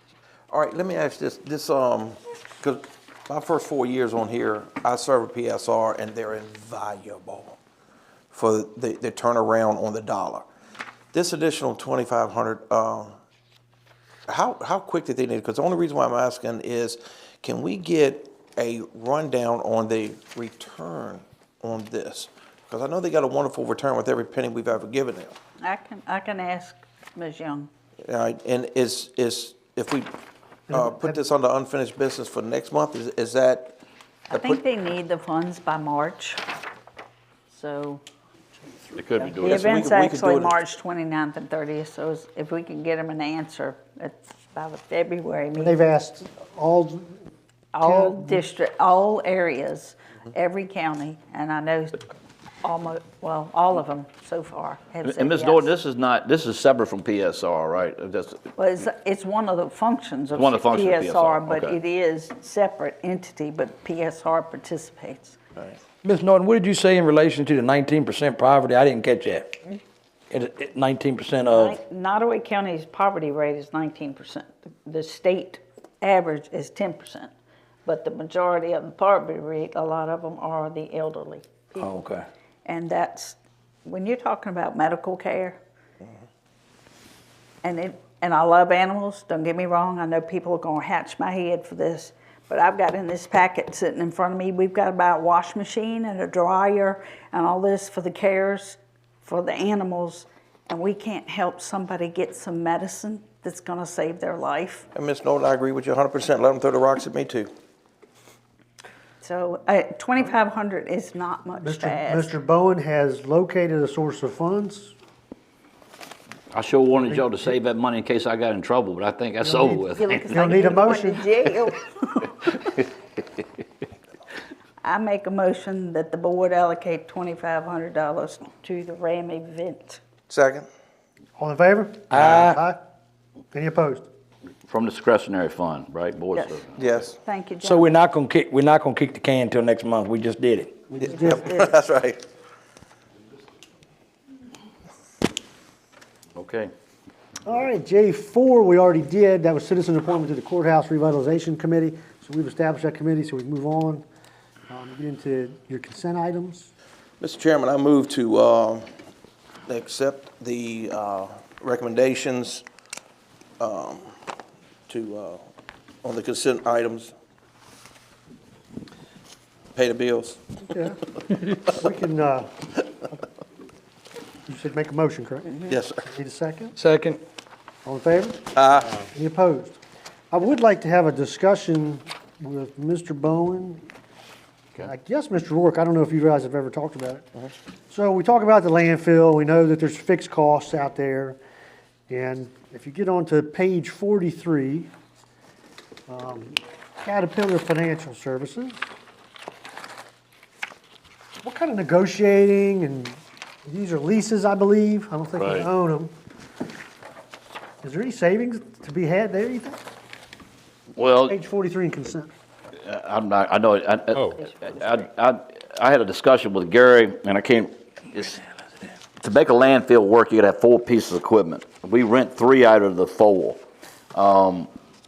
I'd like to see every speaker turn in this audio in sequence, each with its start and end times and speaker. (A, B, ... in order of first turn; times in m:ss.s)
0:00.5-0:07.6 A
0:08.3-0:10.5 A
0:11.1-0:13.2 A
0:14.3-0:25.4 A
0:25.6-0:27.7 B
0:28.1-0:30.1 A
0:30.7-0:31.2 C
0:30.7-0:33.8 A
0:34.3-0:34.6 A
0:34.3-0:36.4 B
0:37.5-0:38.0 B
0:39.0-0:39.9 D
0:39.3-0:45.8 B
0:39.4-0:40.6 A
0:45.6-0:47.2 C
0:47.7-0:52.1 B
0:47.8-0:48.4 C
0:52.6-0:55.7 B
0:55.0-0:58.5 D
0:58.6-1:05.4 B
1:00.4-1:01.8 D
1:06.0-1:09.6 E
1:10.3-1:11.8 E
1:11.5-1:17.3 B
1:17.8-1:21.9 B
1:21.8-1:22.1 E
1:22.6-1:25.6 B
1:27.6-1:44.9 B
1:44.9-1:47.5 A
1:49.2-1:52.4 B
1:51.6-1:54.9 C
1:56.5-2:00.7 D
1:57.0-1:57.5 C
1:59.4-2:01.3 C
2:00.0-2:02.6 B
2:04.8-2:10.0 B
2:10.3-2:10.7 A
2:11.4-2:12.8 C
2:12.1-2:12.6 E
2:13.5-2:14.1 C
2:14.7-2:17.1 D
2:16.3-2:16.6 B
2:16.8-2:17.2 A
2:17.2-2:17.9 B
2:17.6-2:20.8 E
2:20.9-2:21.6 C
2:21.0-2:22.2 A
2:21.1-2:21.7 B
2:26.4-2:26.7 D
2:27.4-2:34.0 C
2:34.7-2:36.7 C
2:37.2-2:38.9 A
2:39.7-2:42.6 A
2:43.6-2:44.2 A
2:44.9-2:45.5 A
2:46.0-2:47.1 A
2:49.8-2:50.4 A
2:50.7-2:51.0 C
2:51.6-2:52.8 C
2:54.5-2:56.8 C
2:55.7-2:56.0 A
2:56.8-2:57.2 E
2:57.8-2:59.8 C
2:58.5-2:58.9 A
3:00.3-3:03.9 C
3:04.8-3:07.3 C
3:07.9-3:11.4 C
3:12.1-3:14.9 C
3:16.1-3:18.8 C
3:21.4-3:26.1 C
3:25.4-3:25.7 D
3:27.8-3:29.8 C
3:31.0-3:31.4 D
3:31.3-3:32.3 C
3:32.8-3:38.4 D
3:39.2-3:43.6 D
3:44.1-3:44.7 D